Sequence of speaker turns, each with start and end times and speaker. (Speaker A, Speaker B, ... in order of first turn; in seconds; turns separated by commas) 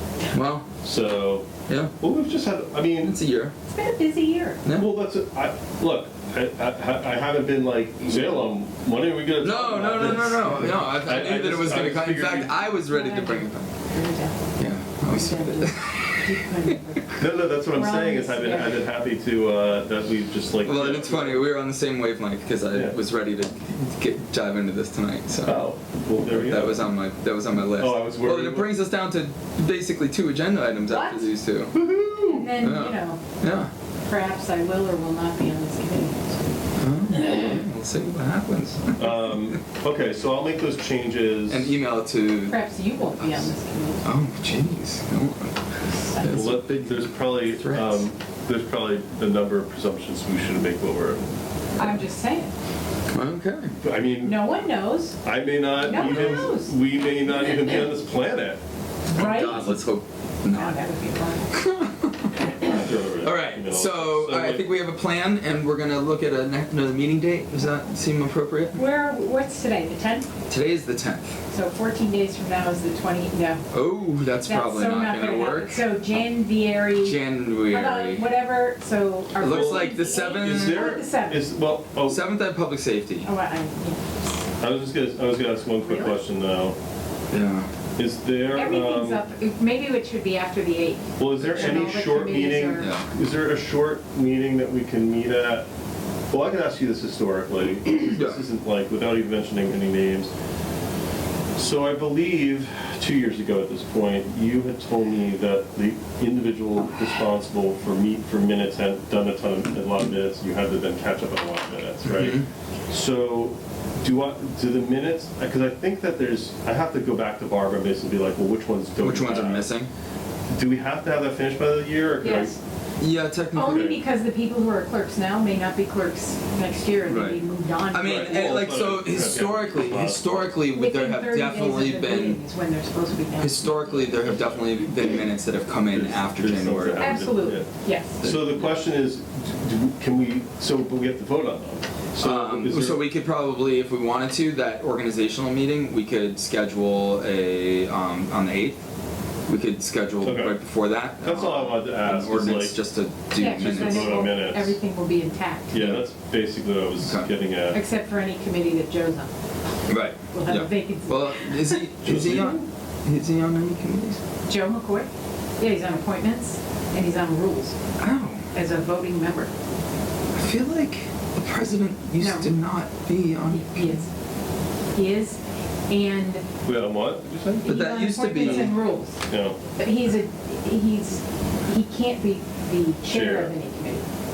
Speaker A: 0.3-0.7, Speaker B: 0.8-3.1, Speaker A: 1.7-1.9, Speaker A: 3.0-3.5, Speaker C: 3.7-4.6, Speaker B: 4.7-12.6, Speaker A: 9.4-13.7, Speaker C: 12.7-18.8, Speaker A: 14.6-16.2, Speaker B: 17.2-21.4, Speaker A: 20.6-25.6, Speaker B: 22.7-23.0, Speaker B: 25.4-26.9, Speaker A: 26.3-31.8, Speaker B: 27.7-28.7, Speaker C: 30.9-31.3, Speaker B: 31.7-32.5, Speaker C: 32.2-33.2, Speaker A: 32.6-33.7, Speaker C: 34.0-36.6, Speaker A: 36.8-39.3, Speaker B: 39.0-41.7, Speaker A: 41.5-43.5, Speaker C: 42.5-44.1, Speaker A: 44.0-45.6, Speaker C: 45.8-46.5, Speaker A: 46.1-48.0, Speaker B: 46.2-51.4, Speaker C: 51.8-52.5, Speaker A: 53.1-53.7, Speaker B: 53.8-54.6, Speaker C: 54.2-55.2, Speaker B: 55.2-58.6, Speaker C: 55.8-56.7, Speaker A: 55.9-56.4, Speaker C: 59.1-59.8, Speaker A: 59.1-60.8, Speaker C: 60.5-61.6, Speaker A: 61.5-68.8, Speaker B: 62.6-64.7, Speaker C: 68.7-70.3, Speaker A: 70.5-71.3, Speaker C: 71.5-73.7, Speaker A: 73.7-75.8, Speaker C: 74.4-81.5, Speaker A: 77.0-78.3, Speaker A: 79.4-81.0, Speaker B: 79.4-82.2, Speaker A: 82.0-83.3, Speaker C: 83.2-84.2, Speaker B: 84.6-86.8, Speaker C: 85.8-86.2, Speaker A: 87.3-87.7, Speaker B: 88.0-89.2, Speaker C: 88.5-92.9, Speaker B: 91.2-95.7, Speaker A: 91.4-93.1, Speaker B: 96.3-100.3, Speaker A: 97.8-98.4, Speaker B: 101.5-119.7, Speaker A: 112.1-112.5, Speaker A: 119.0-119.9, Speaker B: 120.5-122.5, Speaker C: 122.2-122.6, Speaker A: 123.0-124.0, Speaker C: 123.5-128.6, Speaker A: 127.0-127.4, Speaker A: 127.9-132.4, Speaker B: 128.0-130.5, Speaker C: 130.7-133.8, Speaker A: 133.4-137.3, Speaker B: 133.8-134.8, Speaker B: 135.9-137.7, Speaker C: 137.0-138.2, Speaker A: 138.2-138.7, Speaker B: 138.2-143.0, Speaker A: 142.2-148.8, Speaker A: 149.5-154.2, Speaker B: 150.2-150.6, Speaker B: 151.2-152.8, Speaker C: 153.3-155.7, Speaker B: 153.4-154.8, Speaker B: 155.7-157.8, Speaker A: 155.7-156.0, Speaker A: 157.0-157.3, Speaker C: 157.7-159.3, Speaker A: 159.9-164.2, Speaker C: 160.3-161.8, Speaker B: 162.0-162.6, Speaker C: 164.5-167.8, Speaker A: 168.0-168.4, Speaker C: 168.5-169.5, Speaker A: 170.3-174.0, Speaker C: 172.2-172.5, Speaker C: 173.5-174.1, Speaker C: 174.9-176.4, Speaker B: 176.6-177.7, Speaker C: 177.6-179.2, Speaker A: 177.7-178.7, Speaker B: 178.4-178.7, Speaker B: 179.3-179.6, Speaker C: 179.7-184.1, Speaker B: 183.1-183.5